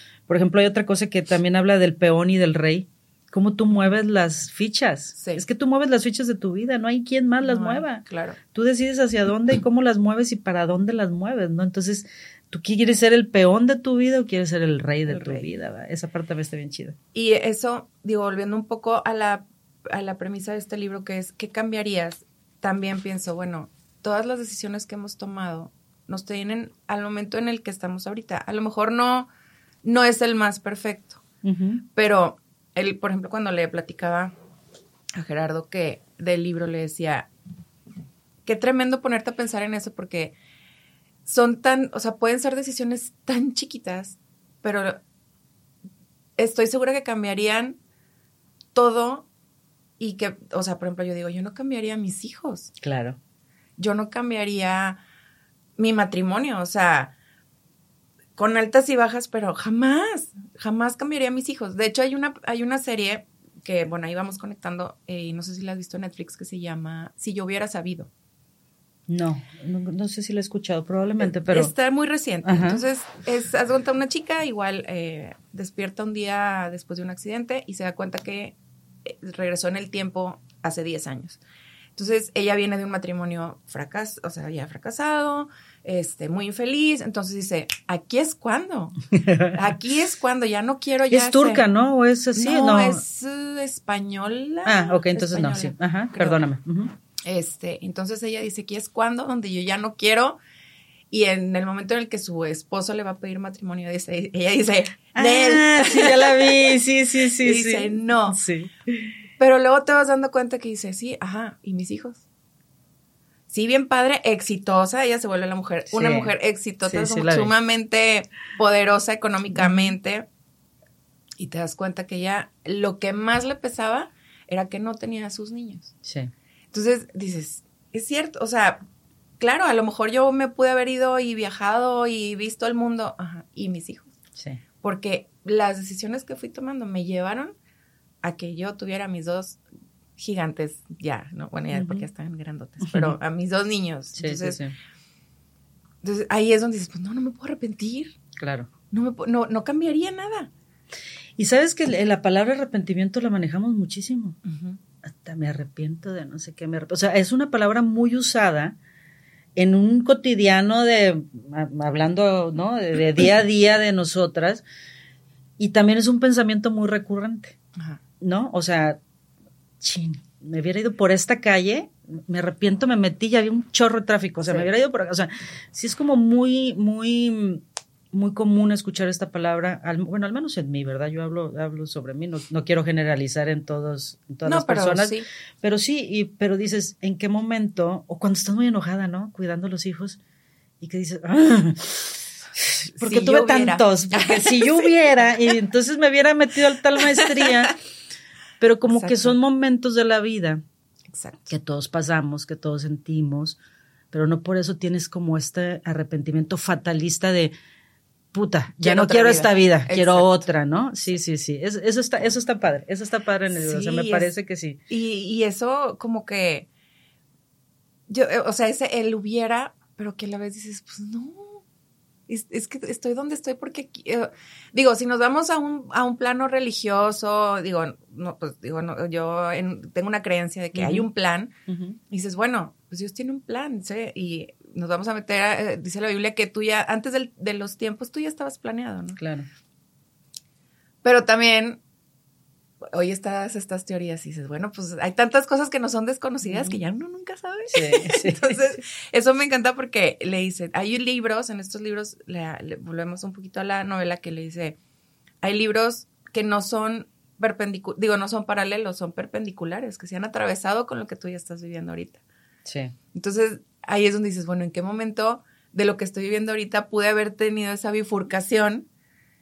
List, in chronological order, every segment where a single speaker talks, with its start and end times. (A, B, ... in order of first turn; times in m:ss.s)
0:00.3-0:17.0 A
0:05.2-0:05.4 B
0:07.4-0:08.4 B
0:15.1-0:15.5 B
0:17.1-0:29.3 B
0:29.8-0:31.2 B
0:31.4-0:31.8 A
0:31.9-0:34.3 B
0:35.1-0:37.3 B
0:38.4-0:40.3 B
0:41.2-0:45.0 B
0:46.4-0:47.8 B
0:48.7-0:49.2 B
0:50.0-0:52.7 B
0:52.8-0:53.2 A
0:53.8-0:55.0 B
0:55.8-0:57.1 B
0:58.4-1:08.1 B
1:09.1-1:11.7 A
1:11.2-1:21.4 B
1:12.4-1:12.8 A
1:22.0-1:31.6 B
1:29.2-1:29.6 A
1:31.1-1:33.0 A
1:32.3-1:36.4 B
1:34.6-1:36.9 A
1:37.2-1:40.4 B
1:41.1-1:46.8 B
1:45.1-1:49.1 A
1:47.4-1:48.4 B
1:49.4-1:52.2 B
1:53.5-2:00.2 B
1:55.9-1:56.3 A
1:56.8-1:57.5 A
1:59.6-1:59.9 A
2:01.4-2:05.9 B
2:06.0-2:06.3 A
2:06.7-2:08.8 B
2:09.4-2:14.1 B
2:14.8-2:17.5 B
2:18.2-2:19.6 B
2:20.2-2:24.6 B
2:21.7-2:22.0 A
2:22.8-2:23.2 A
2:24.2-2:24.7 A
2:26.0-2:28.2 B
2:28.4-2:28.7 A
2:28.9-2:30.5 B
2:31.4-2:34.4 A
2:34.4-2:34.8 B
2:35.0-2:38.8 A
2:39.6-2:44.6 A
2:45.6-2:47.6 A
2:47.8-2:48.0 B
2:48.2-2:49.0 A
2:49.8-3:10.2 A
3:04.4-3:05.2 B
3:10.8-3:17.8 A
3:13.0-3:15.5 B
3:17.0-3:17.5 B
3:18.6-3:20.6 A
3:18.9-3:19.3 B
3:21.1-3:21.4 B
3:21.5-3:23.6 A
3:24.1-3:27.5 A
3:28.3-3:34.8 A
3:28.8-3:30.5 B
3:33.5-3:34.3 B
3:34.9-3:36.7 B
3:38.1-3:41.6 B
3:42.3-3:51.5 B
3:50.7-3:51.0 A
3:51.7-3:52.0 A
3:52.1-3:59.2 B
3:59.2-3:59.5 A
4:01.0-4:01.8 B
4:02.8-4:14.8 B
4:06.5-4:06.8 A
4:07.7-4:08.6 A
4:15.4-4:22.2 B
4:22.6-4:22.9 A
4:23.1-4:28.9 B